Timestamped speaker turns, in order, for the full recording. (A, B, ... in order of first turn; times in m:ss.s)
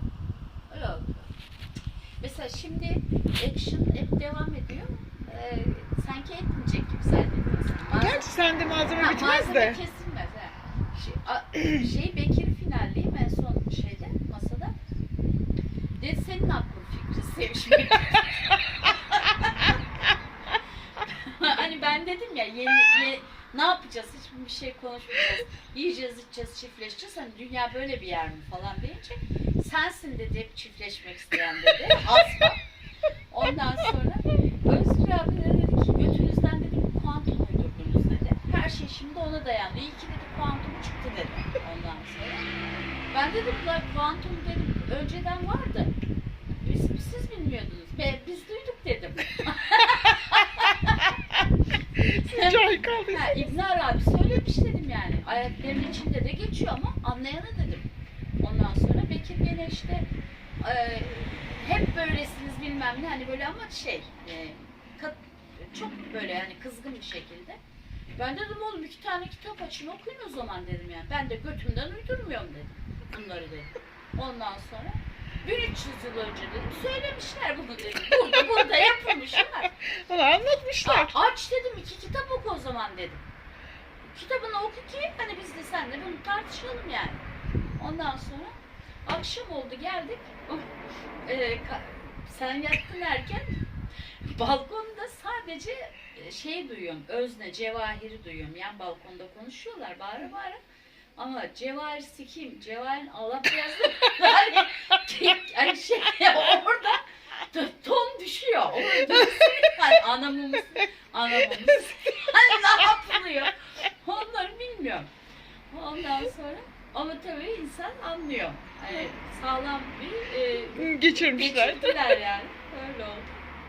0:00.7-0:01.3 A
0:02.2-0:08.3 A
0:07.9-0:09.8 B
0:08.9-0:14.7 A
0:16.0-0:19.8 A
0:21.0-0:32.6 A
0:33.3-0:42.4 A
0:43.1-0:45.9 A
0:46.6-0:51.2 A
0:52.0-0:57.9 A
0:52.0-0:53.4 B
0:58.4-1:00.0 A
1:00.6-1:07.6 A
1:08.2-1:19.8 A
1:20.0-1:21.2 B
1:20.8-1:23.2 A
1:24.0-1:27.2 A
1:27.8-1:28.5 A
1:29.0-1:30.7 A
1:31.2-1:33.4 A
1:34.2-1:40.6 A
1:41.2-1:55.1 A
1:55.7-2:03.3 A
2:00.7-2:02.2 B